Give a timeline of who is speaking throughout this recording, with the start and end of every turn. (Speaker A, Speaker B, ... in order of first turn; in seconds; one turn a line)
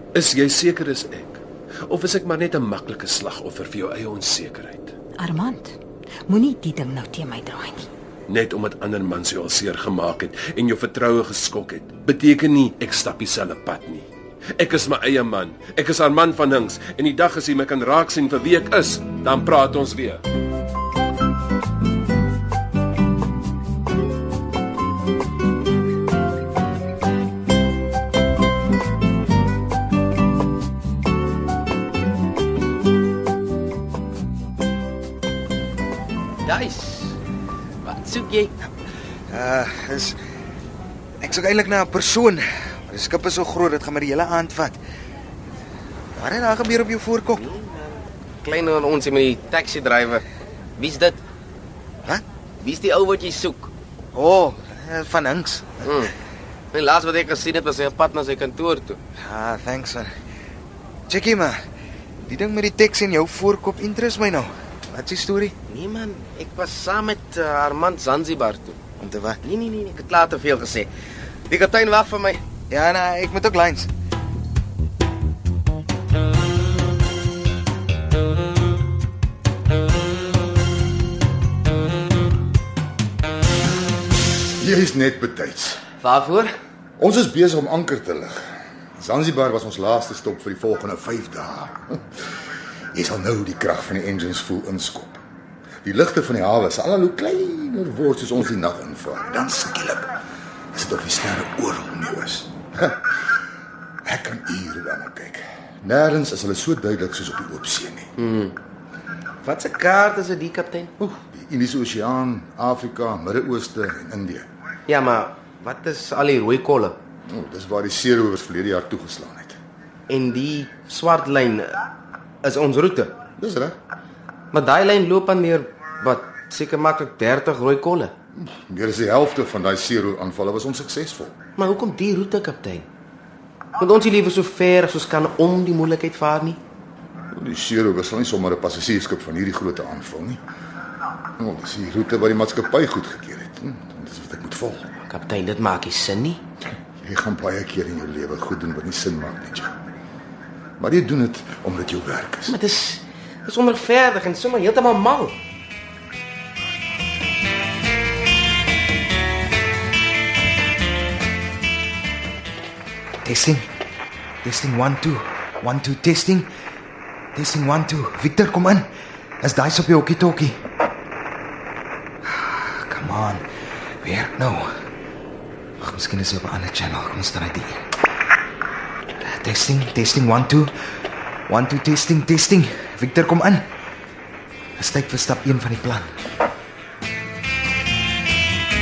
Speaker A: 0.1-4.9
Speaker B: 5.2-7.9
Speaker A: 8.3-20.2
Speaker C: 36.4-37.2
Speaker C: 37.8-38.5
Speaker D: 39.3-40.1
Speaker D: 41.2-44.8
Speaker D: 46.1-47.4
Speaker C: 47.3-50.2
Speaker C: 50.8-51.2
Speaker C: 52.6-53.7
Speaker D: 54.1-55.8
Speaker C: 55.8-56.1
Speaker C: 56.7-59.0
Speaker D: 59.2-60.1
Speaker D: 61.1-61.6
Speaker D: 62.2-65.5
Speaker C: 65.7-68.9
Speaker D: 69.0-69.4
Speaker C: 69.4-70.9
Speaker C: 71.5-72.5
Speaker D: 72.7-73.9
Speaker E: 84.6-85.8
Speaker C: 86.0-86.5
Speaker E: 87.0-88.4
Speaker E: 89.0-92.0
Speaker E: 92.9-95.2
Speaker E: 95.8-100.1
Speaker E: 100.7-103.2
Speaker E: 104.0-108.1
Speaker C: 108.2-108.5
Speaker C: 109.4-110.9
Speaker E: 111.0-114.5
Speaker C: 114.9-117.0
Speaker E: 117.3-119.6
Speaker C: 120.1-121.8
Speaker C: 122.4-123.2
Speaker E: 123.4-123.8
Speaker C: 124.5-128.1
Speaker E: 128.3-131.3
Speaker C: 131.6-132.9
Speaker C: 133.8-136.6
Speaker E: 137.3-140.4
Speaker E: 141.4-144.9
Speaker C: 145.0-146.4
Speaker E: 147.0-149.7
Speaker E: 150.8-152.6
Speaker C: 152.5-155.4
Speaker D: 163.2-163.6
Speaker D: 164.4-166.5
Speaker D: 167.3-168.9
Speaker D: 169.4-170.6
Speaker D: 172.3-173.4
Speaker D: 174.0-174.7
Speaker D: 175.8-177.8
Speaker D: 179.2-180.7
Speaker D: 181.5-183.7
Speaker D: 184.8-186.1